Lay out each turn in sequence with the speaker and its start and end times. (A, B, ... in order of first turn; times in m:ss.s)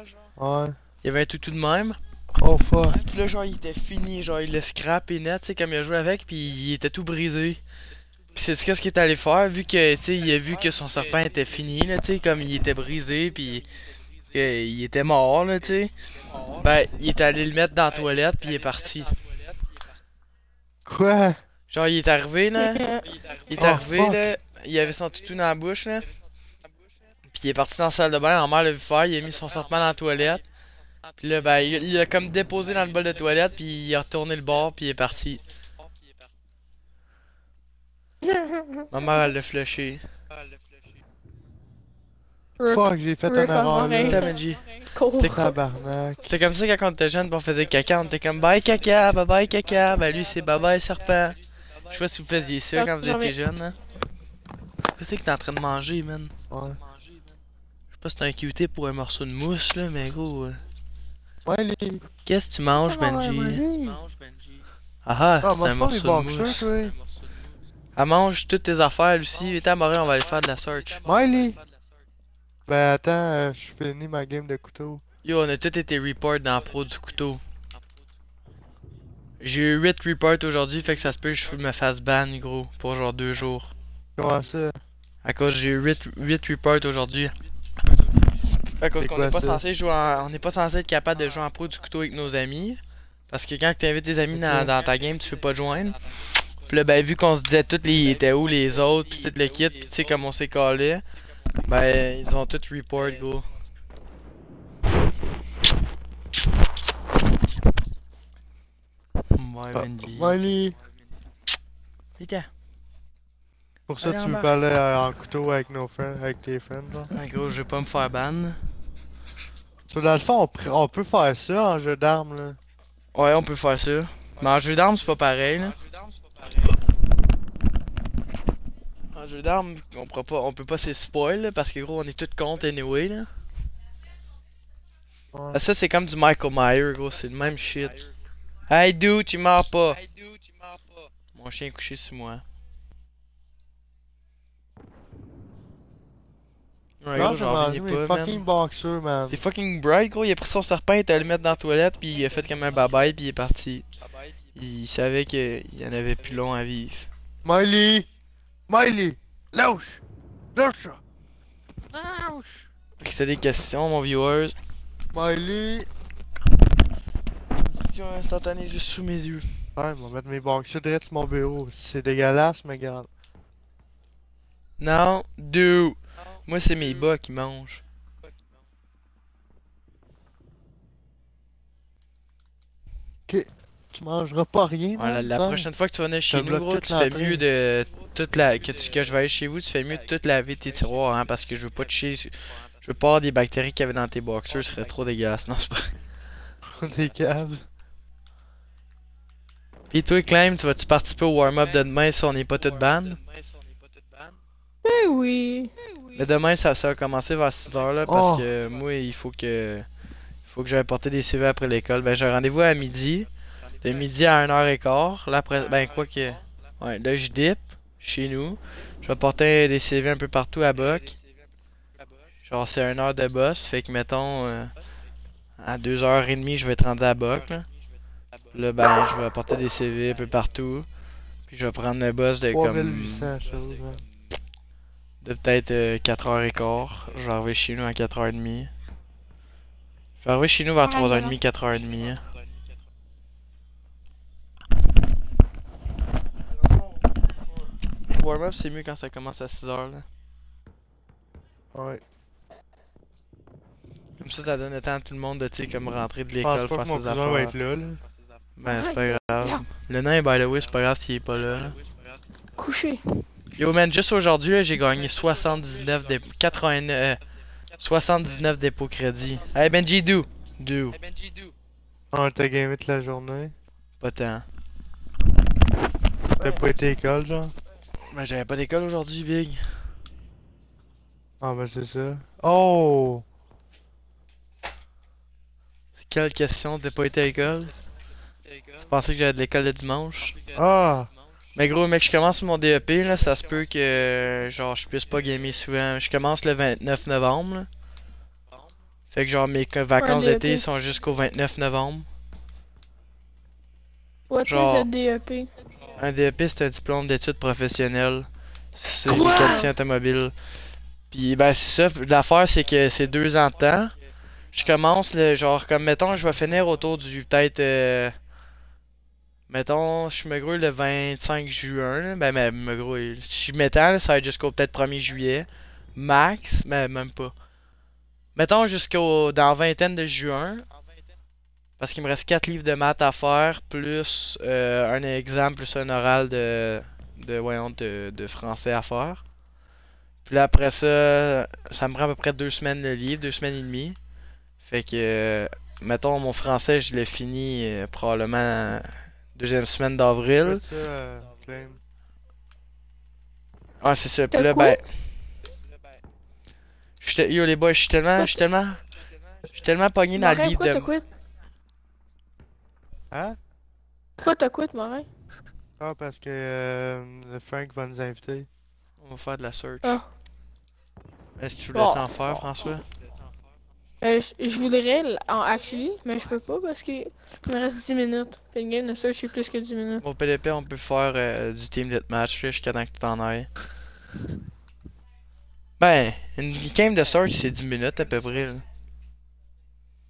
0:00.4-0:00.8 A
0:01.0-0:02.0 B
0:02.4-0:03.0 A
0:02.9-0:07.6 B
0:08.3-0:13.7 B
0:14.3-0:15.9 B
0:16.5-0:19.2 B
0:20.8-0:21.4 A
0:21.7-0:26.1 B
0:22.6-0:23.0 C
0:23.6-0:24.4 A
0:27.3-0:30.4 B
0:31.2-0:35.4 B
0:38.2-0:39.2 C
0:38.9-0:40.0 B
0:42.6-0:44.3 C
0:42.7-0:44.4 A
0:44.1-0:45.5 B
0:44.8-0:45.6 C
0:45.2-0:46.2 A
0:46.2-0:53.8 B
0:52.7-0:53.3 C
0:55.0-0:56.3 B
0:56.5-0:56.8 A
0:57.9-1:00.6 B
1:01.4-1:02.0 A
1:02.2-1:03.6 B
1:02.8-1:04.0 A
1:05.0-1:06.7 B
1:05.4-1:06.9 A
1:08.0-1:11.0 B
1:11.0-1:11.6 A
1:12.7-1:15.0 A
1:15.2-1:17.4 B
1:19.4-1:23.7 B
1:24.2-1:24.8 A
1:25.2-1:27.3 B
1:28.7-1:36.0 B
1:29.0-1:29.6 A
1:34.3-1:34.7 A
1:36.6-1:41.0 B
1:41.6-1:43.5 B
1:49.3-1:50.4 B
1:49.7-1:50.8 A
1:52.2-1:52.5 B
1:53.9-1:57.1 A
1:54.0-1:54.5 B
1:57.1-1:58.6 B
1:59.9-2:02.6 A
2:03.1-2:05.8 B
2:09.1-2:13.3 B
2:15.3-2:15.6 A
2:15.5-2:18.0 B
2:18.7-2:20.0 B
2:21.3-2:22.4 B
2:27.0-2:28.4 B
2:27.1-2:29.4 A
2:29.3-2:33.9 B
2:34.5-2:37.1 B
2:37.4-2:38.1 A
2:38.7-2:40.0 A
2:40.5-2:41.0 A
2:41.9-2:42.7 A
2:43.0-2:44.6 B
2:45.1-2:45.9 A
2:47.5-2:49.7 B
2:49.8-2:53.1 A
2:54.8-2:57.8 B
3:03.3-3:05.7 A
3:05.0-3:15.9 B
3:06.3-3:07.4 A
3:16.6-3:17.6 A
3:19.9-3:23.2 B
3:24.8-3:25.8 C
3:26.1-3:29.9 B
3:28.0-3:28.5 A
3:30.5-3:33.3 B
3:33.8-3:41.2 B
3:42.4-3:44.7 B
3:45.6-3:47.7 B
3:48.5-3:50.9 B
3:51.5-3:53.4 B
3:52.5-3:54.0 A
3:55.2-3:58.7 B
4:00.2-4:02.3 B
4:00.8-4:01.4 C
4:08.1-4:10.0 B
4:11.7-4:12.0 A
4:14.2-4:17.5 B
4:16.4-4:18.0 A
4:18.6-4:21.8 B
4:18.6-4:19.6 C
4:22.6-4:23.0 C
4:23.6-4:27.2 B
4:27.8-4:31.0 B
4:32.1-4:33.5 A
4:34.0-4:34.4 B
4:36.4-4:37.5 A
4:38.1-4:39.6 B
4:41.4-4:43.2 A
4:46.0-4:47.7 B
4:48.8-4:50.4 B
4:50.5-4:51.1 A
4:51.5-4:57.7 B
4:59.1-5:02.1 B
5:00.0-5:00.6 C
5:04.3-5:05.5 C
5:04.4-5:04.9 B
5:06.0-5:10.3 B
5:09.1-5:09.7 C
5:11.1-5:13.9 B
5:14.5-5:18.2 B
5:19.5-5:27.3 B
5:28.3-5:30.7 B
5:31.8-5:39.2 B
5:40.2-5:44.0 B
5:44.6-5:50.6 B
5:50.4-5:51.8 A
5:53.8-5:54.9 B
5:54.3-5:54.9 C
5:57.0-5:58.8 B
5:59.5-6:00.9 B
6:00.2-6:01.0 C
6:03.1-6:03.4 A
6:04.2-6:05.1 C
6:05.8-6:08.5 A
6:09.0-6:10.0 B
6:11.4-6:12.8 B
6:11.7-6:12.5 C
6:14.0-6:20.0 C
6:20.0-6:23.5 B
6:25.8-6:28.6 B